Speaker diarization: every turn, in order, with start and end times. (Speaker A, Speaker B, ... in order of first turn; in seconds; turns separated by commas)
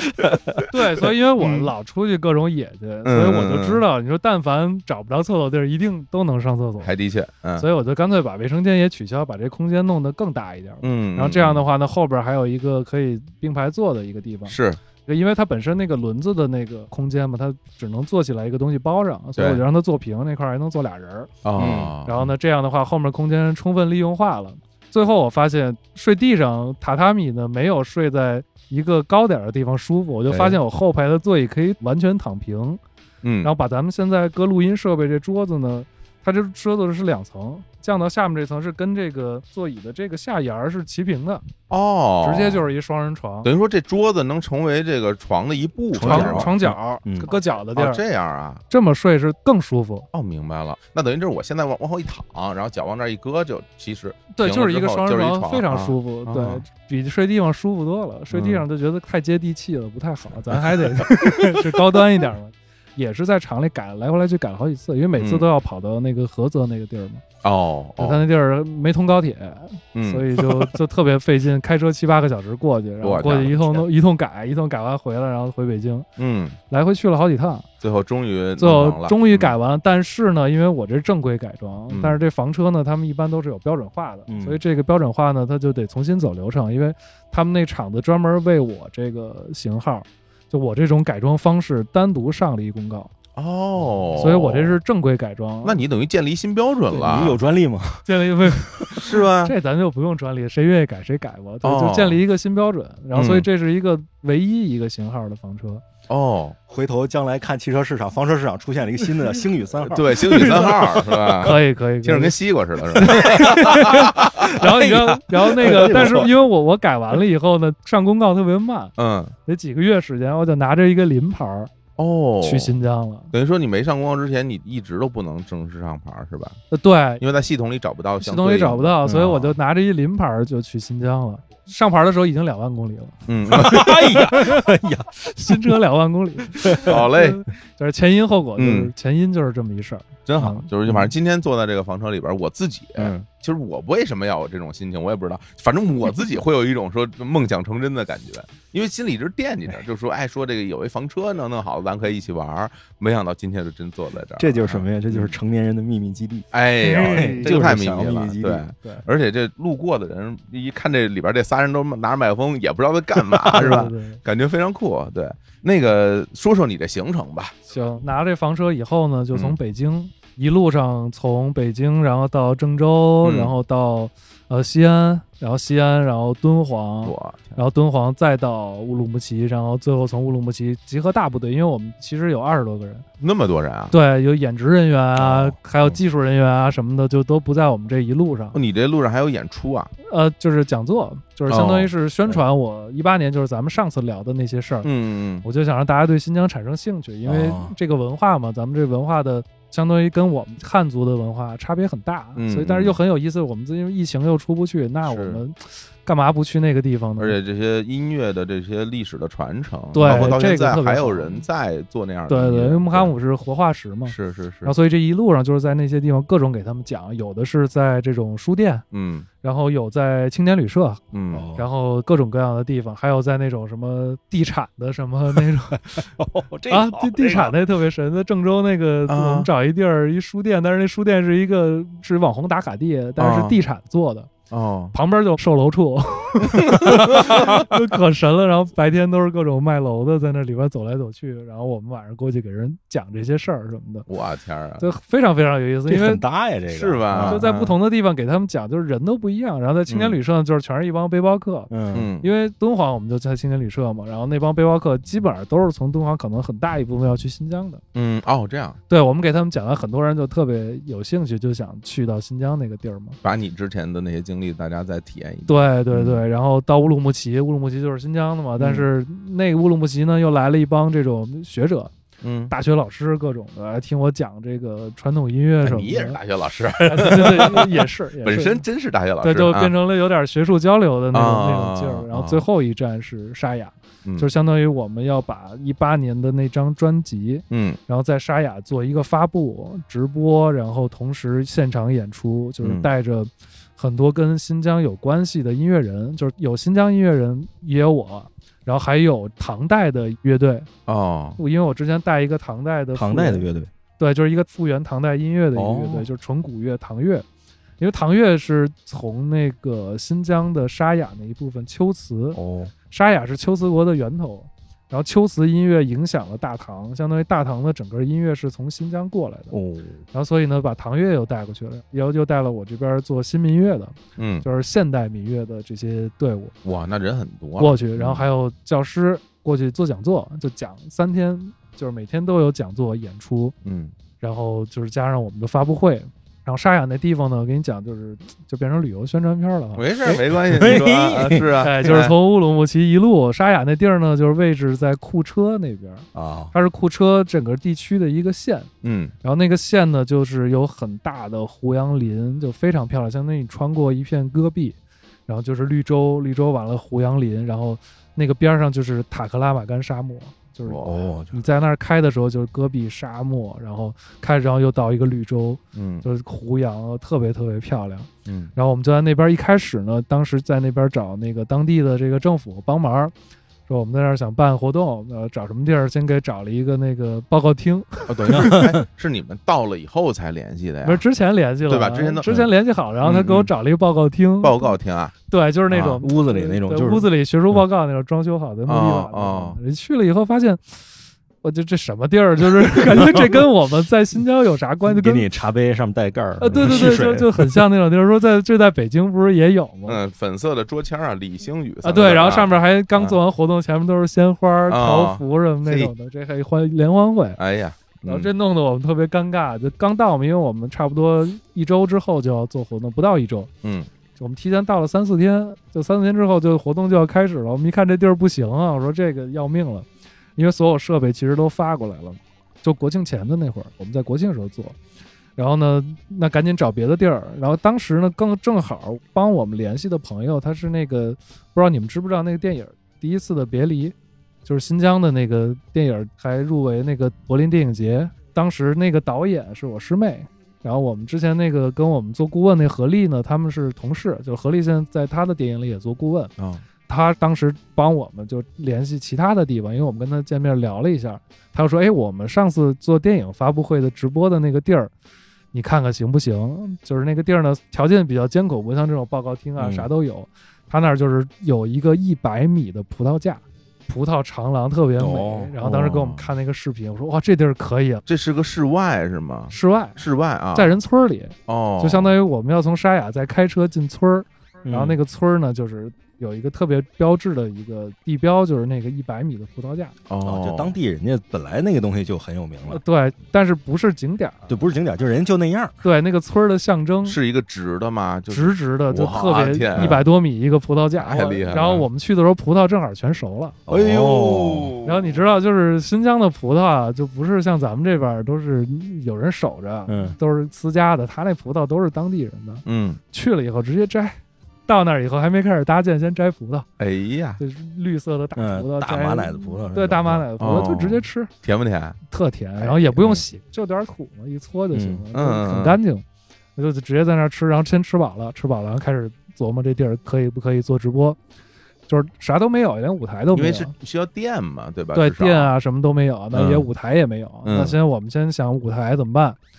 Speaker A: 0.2-0.5, Speaker B: 0.7-6.9, Speaker C: 1.4-1.7, Speaker C: 3.0-3.8, Speaker C: 6.8-7.7, Speaker B: 7.6-21.4, Speaker C: 10.8-11.7, Speaker C: 14.5-14.8, Speaker C: 19.4-19.6, Speaker C: 21.4-22.2, Speaker A: 21.6-22.0, Speaker B: 22.1-32.8, Speaker C: 30.3-30.6, Speaker C: 33.2-33.5, Speaker B: 33.4-41.4, Speaker C: 41.7-42.7, Speaker B: 42.2-43.5, Speaker C: 43.4-46.6, Speaker A: 45.9-47.3, Speaker B: 46.0-48.0, Speaker C: 47.3-48.6, Speaker B: 48.7-50.1, Speaker C: 50.1-56.6, Speaker B: 54.4-67.2, Speaker C: 58.3-58.6, Speaker C: 60.6-61.1, Speaker C: 65.2-65.5, Speaker C: 67.4-68.2, Speaker B: 68.0-76.1, Speaker C: 69.9-70.6, Speaker C: 73.0-73.8, Speaker C: 76.2-76.6, Speaker B: 76.7-77.7, Speaker C: 77.8-79.5, Speaker B: 78.6-93.1, Speaker C: 81.9-82.2, Speaker A: 84.3-84.6, Speaker C: 93.3-94.8, Speaker B: 94.2-95.8, Speaker C: 95.6-97.4, Speaker A: 96.9-98.9, Speaker B: 98.1-105.8, Speaker C: 99.0-99.5, Speaker C: 101.6-102.2, Speaker C: 103.1-103.5, Speaker C: 106.1-106.6, Speaker A: 106.7-111.3, Speaker C: 109.8-114.5, Speaker B: 110.2-110.8, Speaker B: 111.4-112.4, Speaker B: 113.0-119.0, Speaker A: 113.0-116.3, Speaker C: 115.8-116.2, Speaker C: 119.0-119.3, Speaker B: 119.5-121.7, Speaker C: 122.0-122.7, Speaker B: 122.4-123.3, Speaker C: 123.3-126.6, Speaker B: 126.7-127.2, Speaker C: 127.2-129.0, Speaker B: 128.2-134.7, Speaker A: 129.1-129.5, Speaker C: 133.3-134.2, Speaker A: 133.5-135.7, Speaker B: 135.2-141.1, Speaker C: 136.8-137.4, Speaker C: 138.6-138.9, Speaker C: 140.3-155.3, Speaker A: 143.0-143.3, Speaker A: 154.4-158.7, Speaker C: 156.5-167.6, Speaker B: 156.8-157.5, Speaker A: 163.4-163.7, Speaker B: 163.5-164.2, Speaker B: 167.7-183.1, Speaker C: 173.2-173.5, Speaker C: 177.1-177.6, Speaker C: 183.2-183.9, Speaker B: 183.9-188.6, Speaker A: 185.2-185.6, Speaker C: 188.5-189.9, Speaker B: 190.0-194.9, Speaker C: 191.5-191.9, Speaker C: 194.8-195.4, Speaker B: 195.4-207.4, Speaker A: 197.2-197.8, Speaker C: 202.4-203.0, Speaker C: 205.1-205.4, Speaker C: 207.2-213.1, Speaker B: 209.9-211.4, Speaker B: 212.3-218.8, Speaker C: 214.1-214.7, Speaker C: 218.9-219.3, Speaker B: 219.4-221.0, Speaker C: 221.1-221.5, Speaker A: 221.3-221.7, Speaker B: 221.6-226.1, Speaker A: 226.0-227.6, Speaker B: 226.7-234.3, Speaker C: 229.1-229.5, Speaker C: 233.2-233.6, Speaker C: 234.5-234.9, Speaker B: 234.9-244.1, Speaker C: 236.7-237.6, Speaker C: 244.1-244.8, Speaker B: 244.8-246.2, Speaker A: 245.9-247.4, Speaker C: 246.7-247.8, Speaker B: 247.2-251.7, Speaker C: 249.9-250.2, Speaker A: 251.7-252.1, Speaker C: 251.9-252.3, Speaker B: 252.2-257.8, Speaker C: 257.9-258.8, Speaker B: 258.9-263.2, Speaker C: 263.2-266.2, Speaker B: 265.5-271.9, Speaker C: 268.6-268.9, Speaker C: 272.2-272.5, Speaker B: 272.5-276.2, Speaker C: 275.6-279.8, Speaker B: 276.8-278.6, Speaker B: 279.2-300.7, Speaker C: 281.1-282.4, Speaker C: 287.5-287.8, Speaker C: 292.6-292.9, Speaker C: 300.9-301.4, Speaker B: 301.4-303.5, Speaker A: 302.9-303.7, Speaker B: 304.0-307.2, Speaker A: 305.6-306.1, Speaker B: 307.8-312.4, Speaker A: 312.4-312.7, Speaker B: 312.9-319.5, Speaker A: 319.5-320.0, Speaker B: 320.1-326.6, Speaker C: 324.2-324.5, Speaker C: 326.6-328.2, Speaker B: 327.6-333.6, Speaker C: 333.6-333.9, Speaker B: 334.2-340.1, Speaker C: 339.8-342.1, Speaker A: 340.1-341.9, Speaker B: 341.6-348.7, Speaker A: 346.1-346.5, Speaker C: 348.8-349.1, Speaker B: 349.2-373.1, Speaker C: 360.7-360.9, Speaker A: 360.8-361.4, Speaker C: 365.8-366.1, Speaker C: 368.3-368.5, Speaker B: 373.7-378.6, Speaker C: 378.1-381.0, Speaker A: 378.4-378.7, Speaker B: 380.8-390.9, Speaker C: 381.7-382.2, Speaker A: 382.2-382.5, Speaker C: 383.0-383.5, Speaker C: 384.4-385.1, Speaker A: 385.7-387.1, Speaker C: 388.7-389.6, Speaker B: 391.4-395.3, Speaker A: 392.9-393.4, Speaker A: 394.9-397.6, Speaker B: 396.4-400.0, Speaker C: 396.6-396.9, Speaker C: 399.9-403.2, Speaker B: 401.8-407.4, Speaker C: 404.7-405.9, Speaker C: 407.4-408.3, Speaker B: 408.1-413.5, Speaker C: 413.6-413.9, Speaker B: 414.2-424.8, Speaker B: 425.4-446.3, Speaker C: 446.4-446.6, Speaker B: 446.9-454.9, Speaker B: 455.5-468.0, Speaker A: 459.6-459.9, Speaker A: 465.0-466.2, Speaker C: 468.1-470.7, Speaker B: 469.5-470.0, Speaker B: 470.5-479.9, Speaker C: 471.5-472.2, Speaker A: 474.7-475.0, Speaker C: 480.1-480.8, Speaker A: 480.2-482.8, Speaker B: 482.7-484.6, Speaker A: 484.5-485.8, Speaker B: 485.8-487.2, Speaker C: 487.1-490.0, Speaker B: 488.3-493.6, Speaker A: 489.7-490.0, Speaker C: 491.0-491.9, Speaker A: 493.7-494.8, Speaker C: 493.7-495.1, Speaker B: 494.8-506.7, Speaker A: 499.9-500.2, Speaker C: 502.6-503.0, Speaker C: 506.8-507.4, Speaker B: 507.4-511.3, Speaker A: 508.4-510.3, Speaker C: 510.4-512.0, Speaker B: 512.1-516.0, Speaker A: 514.7-515.0, Speaker C: 515.1-515.8, Speaker B: 516.6-521.2, Speaker B: 521.9-523.7, Speaker C: 523.3-525.5, Speaker B: 524.9-529.4, Speaker A: 526.3-526.7, Speaker C: 527.5-527.8